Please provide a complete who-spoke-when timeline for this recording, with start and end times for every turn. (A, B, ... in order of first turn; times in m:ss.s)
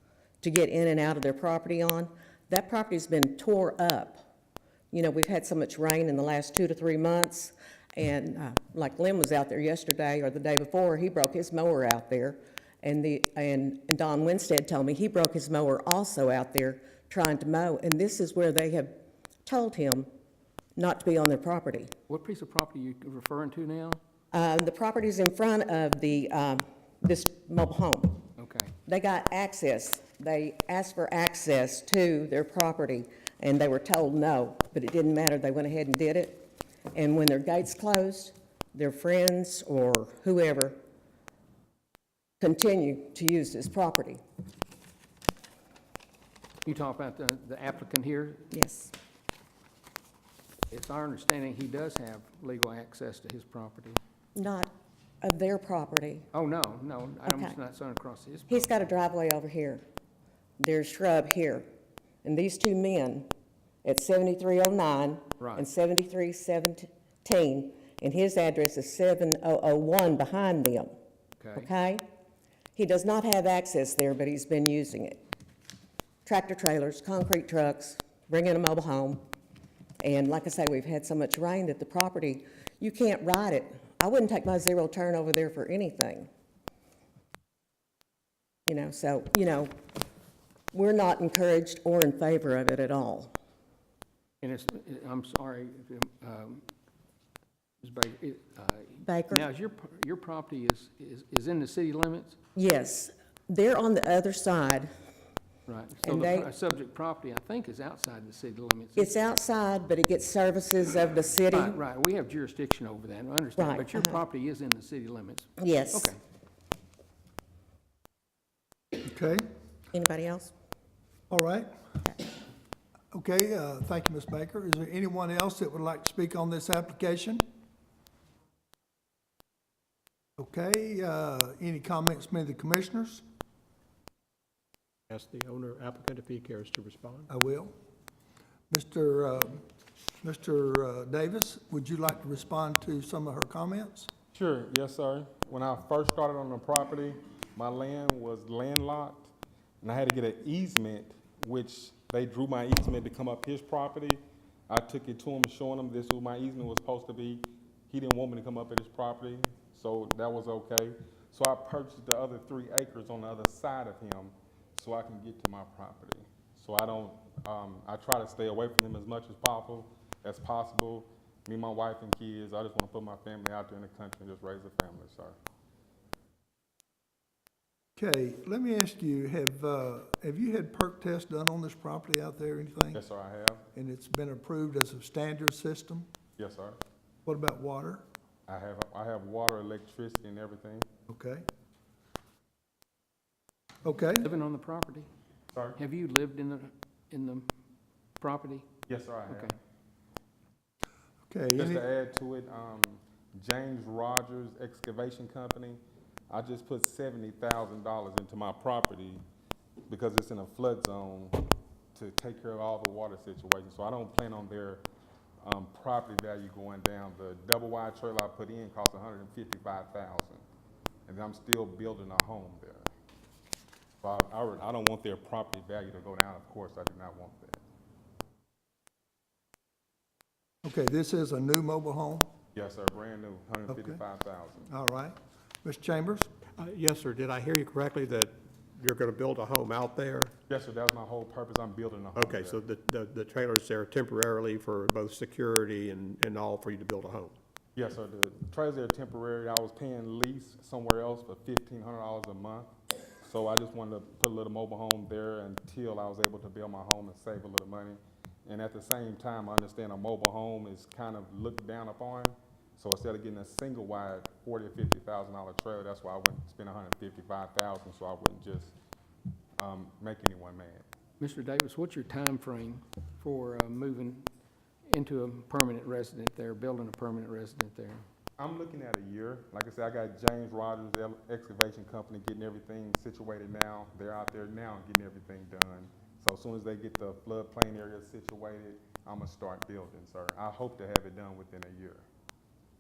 0:00.4-0:04.2 A
0:04.9-0:20.1 A
0:20.8-0:21.9 A
0:22.1-0:24.0 B
0:24.3-0:28.3 A
0:28.4-0:28.7 B
0:28.9-0:40.8 A
0:42.4-0:44.2 A
0:46.6-0:48.5 B
0:48.5-0:48.9 A
0:50.7-0:54.0 B
0:54.4-0:56.3 A
0:56.3-0:58.7 B
0:57.3-0:57.5 A
0:58.5-0:59.8 A
1:00.6-1:01.7 A
1:02.2-1:03.3 A
1:03.8-1:10.9 A
1:05.4-1:05.6 B
1:11.4-1:11.7 B
1:11.6-1:12.0 A
1:12.8-1:15.2 A
1:16.2-1:19.2 A
1:20.0-1:26.3 A
1:28.7-1:29.7 A
1:30.7-1:33.3 A
1:34.4-1:36.6 B
1:37.8-1:42.4 B
1:39.0-1:39.4 A
1:42.6-1:44.9 A
1:45.7-1:49.1 B
1:46.0-1:46.5 A
1:49.0-1:51.8 A
1:51.5-1:56.2 B
1:53.6-1:54.2 A
1:55.6-1:56.1 A
1:59.0-1:59.5 C
1:59.9-2:00.5 A
2:01.3-2:01.9 C
2:03.1-2:07.4 C
2:10.4-2:13.2 C
2:15.1-2:17.3 D
2:17.3-2:17.7 C
2:18.7-2:19.6 C
2:20.2-2:24.1 C
2:24.3-2:55.4 E
2:58.0-3:03.0 C
3:02.9-3:03.6 E
3:03.7-3:06.1 C
3:06.4-3:06.8 E
3:07.2-3:08.0 C
3:08.5-3:10.9 E
3:11.1-3:11.5 C
3:13.8-3:14.3 C
3:14.2-3:15.1 B
3:15.5-3:15.8 E
3:15.8-3:17.5 B
3:18.2-3:18.7 B
3:18.9-3:19.5 E
3:19.3-3:19.5 B
3:21.3-3:21.8 C
3:21.6-3:29.2 E
3:29.9-3:34.8 E
3:35.4-3:40.4 E
3:41.1-3:42.9 E
3:44.0-3:47.6 E
3:50.6-3:52.3 C
3:52.5-3:54.7 E
3:53.7-3:54.0 C
3:54.7-3:56.3 C
3:56.6-4:00.3 D
4:00.5-4:02.6 E
4:02.2-4:07.4 D
4:07.8-4:12.7 E
4:13.2-4:28.8 E
4:29.6-4:30.8 E
4:31.2-4:34.3 B
4:34.9-4:38.0 B
4:38.4-4:52.0 E